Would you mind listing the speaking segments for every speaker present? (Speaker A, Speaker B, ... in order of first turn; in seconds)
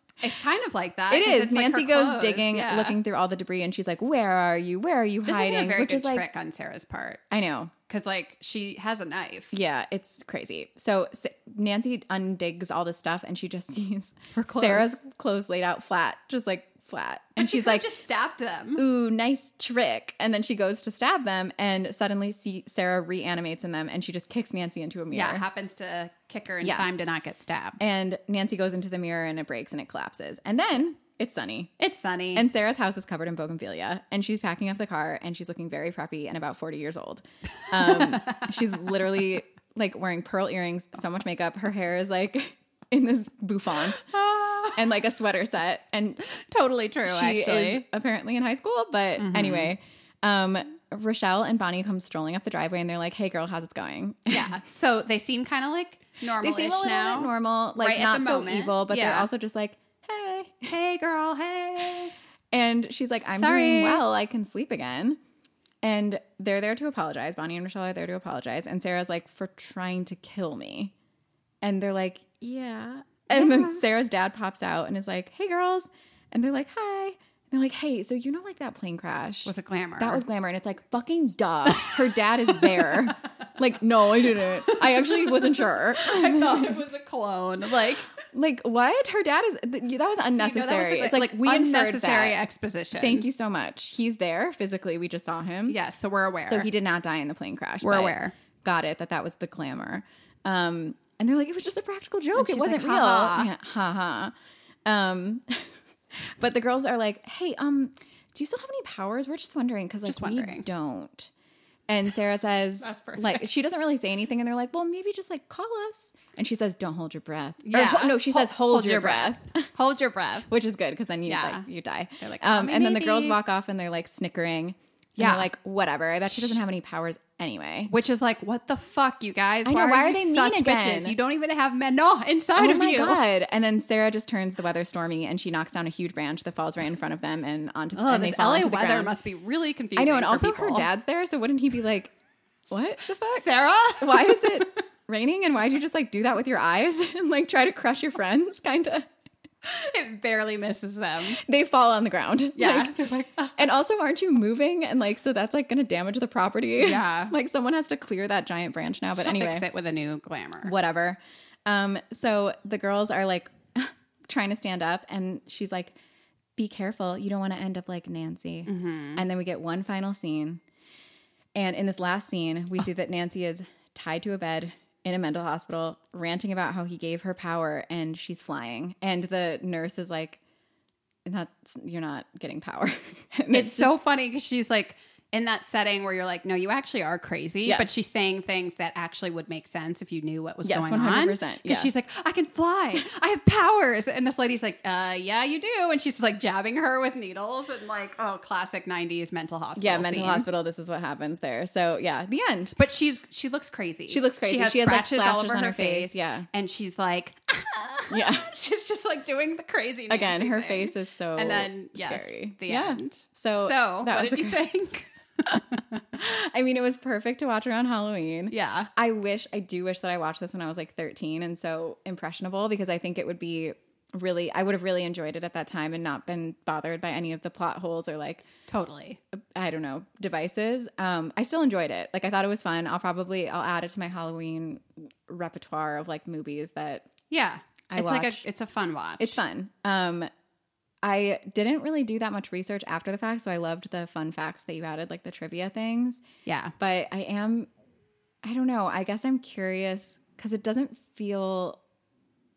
Speaker A: 0.2-3.0, 5.2-7.2, 7.9-9.5, 14.3-14.9, 17.4-18.8, 25.1-27.8, 31.8-32.4, 37.7-38.7, 44.1-44.9, 46.3-47.8, 49.2-49.7, 54.3-59.3, 60.6-62.1, 63.3-64.0, 73.3-73.8, 79.5-80.2, 81.7-81.9, 82.6-83.1, 84.7-88.1, 90.4-93.2, 95.7-96.7, 97.8-98.3, 102.3-103.5, 110.0-110.7, 112.8-113.6, 117.6-120.5, 121.3-121.6, 122.2-123.4, 125.2-125.5, 127.9-133.2, 137.9-140.9, 143.2-144.7, 149.6-151.4, 152.6-153.6, 156.8-157.3, 159.1-160.7, 168.7-169.2, 183.5-200.5, 202.8-216.0, 218.5-218.9, 228.7-229.2, 237.3-239.4, 246.4-246.7
Speaker B: 1.1-6.2, 7.3-7.7, 9.5-17.9, 18.8-25.4, 26.6-26.9, 27.8-31.7, 32.3-44.1, 44.7-46.3, 47.0-54.5, 56.4-60.7, 62.5-65.2, 65.8-70.9, 71.6-86.8, 88.3-92.4, 92.9-95.8, 96.4-104.3, 104.8-111.3, 111.9-119.7, 120.5-127.9, 129.6-131.2, 132.6-139.1, 139.9-142.1, 142.7-143.5, 144.0-149.1, 151.3-153.0, 153.6-159.6, 160.6-165.9, 166.6-170.6, 171.5-180.4, 181.2-183.9, 187.6-187.9, 190.6-191.9, 199.8-202.8, 204.1-206.5, 208.1-208.5, 210.1-214.7, 216.1-228.4, 229.5-237.1, 237.9-238.4, 239.2-240.3, 241.0-246.2, 246.8-247.7, 248.4-251.8